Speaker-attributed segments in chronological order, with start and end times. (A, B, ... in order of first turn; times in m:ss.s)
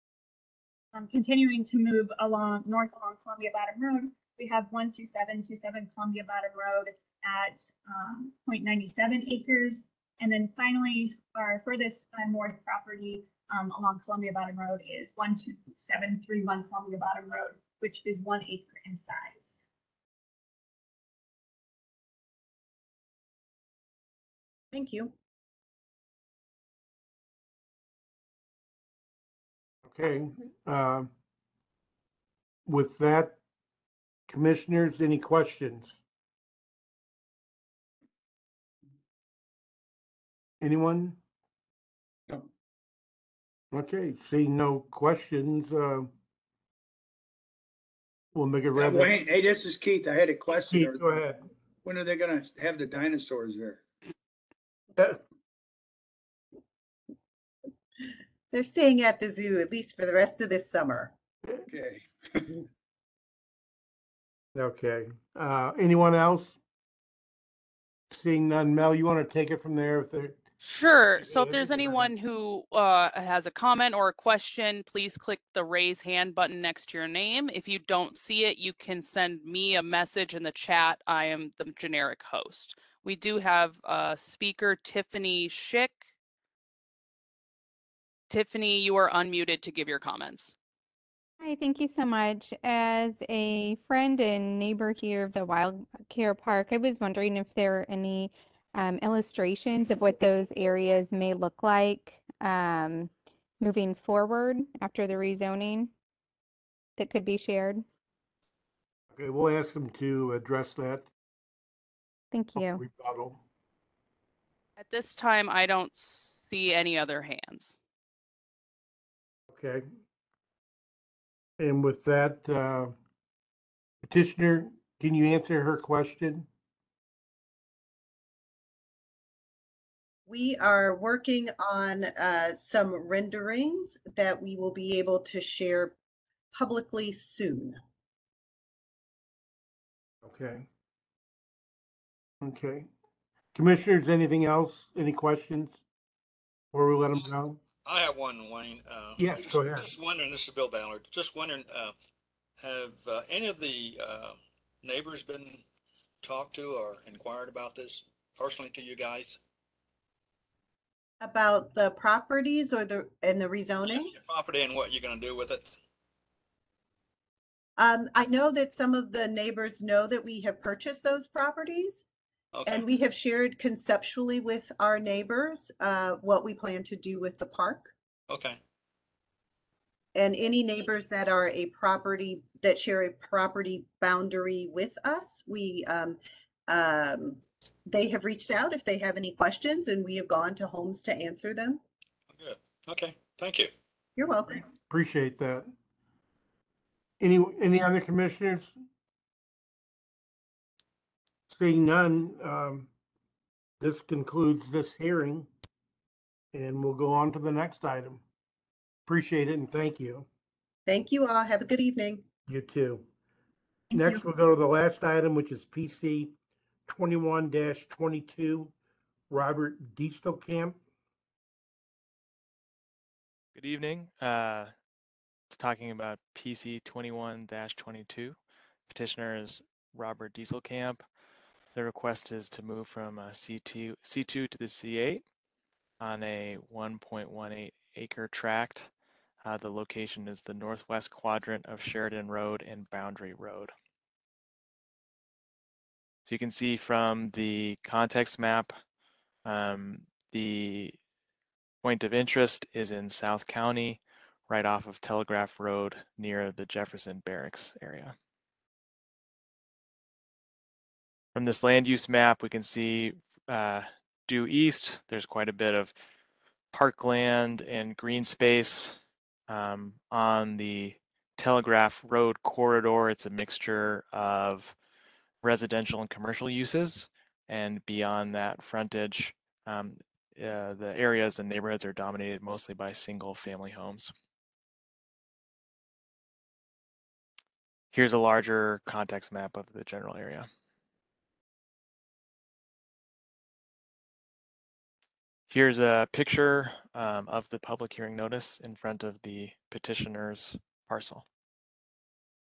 0:00.9-0:19.6 A
0:24.7-0:25.1 B
0:29.9-0:31.1 C
0:32.6-0:33.4 C
0:34.3-0:36.0 C
0:40.6-0:41.2 C
0:43.7-0:46.1 C
0:48.3-0:49.1 C
0:48.7-0:51.2 D
0:50.6-0:51.5 C
0:51.8-0:53.8 D
0:58.5-1:01.1 B
1:01.7-1:02.6 D
1:04.5-1:06.6 C
1:08.1-1:10.4 C
1:10.6-1:26.0 E
1:11.2-1:12.1 C
1:28.3-1:30.5 E
1:31.4-1:45.9 F
1:47.0-1:47.8 F
1:49.1-1:51.1 C
1:52.3-1:52.8 F
1:52.6-1:53.4 C
1:54.8-1:57.8 E
1:59.5-1:59.8 C
2:01.6-2:02.9 C
2:04.0-2:06.5 C
2:10.3-2:16.0 B
2:16.5-2:17.8 B
2:20.2-2:20.7 C
2:22.4-2:22.9 C
2:23.5-2:25.8 C
2:26.7-2:27.6 C
2:27.8-2:31.9 G
2:29.2-2:29.9 C
2:32.6-2:35.6 G
2:36.2-2:39.4 G
2:41.2-2:44.1 B
2:43.9-2:45.7 G
2:47.8-2:52.0 B
2:52.5-2:52.8 G
2:52.6-2:57.9 B
2:58.3-2:58.6 G
3:00.1-3:11.8 B
3:12.3-3:13.7 G
3:14.2-3:14.6 B
3:14.9-3:15.7 C
3:17.2-3:18.7 C
3:21.5-3:22.9 C
3:23.8-3:25.5 C
3:26.5-3:28.2 C
3:29.1-3:30.3 C
3:30.8-3:32.2 B
3:32.5-3:33.0 C
3:33.9-3:34.2 A
3:33.9-3:36.3 C
3:36.9-3:38.7 C
3:39.3-3:40.8 C
3:43.6-3:44.7 H
3:45.5-3:48.4 H
3:48.9-3:51.0 H
3:51.7-3:55.2 H
3:56.0-3:58.9 H
3:59.4-4:03.7 H
4:06.2-4:08.7 H
4:09.4-4:11.0 H
4:11.8-4:18.1 H
4:21.3-4:25.9 H
4:26.7-4:34.7 H
4:35.4-4:44.1 H
4:47.9-4:50.5 H
4:55.5-5:01.2 H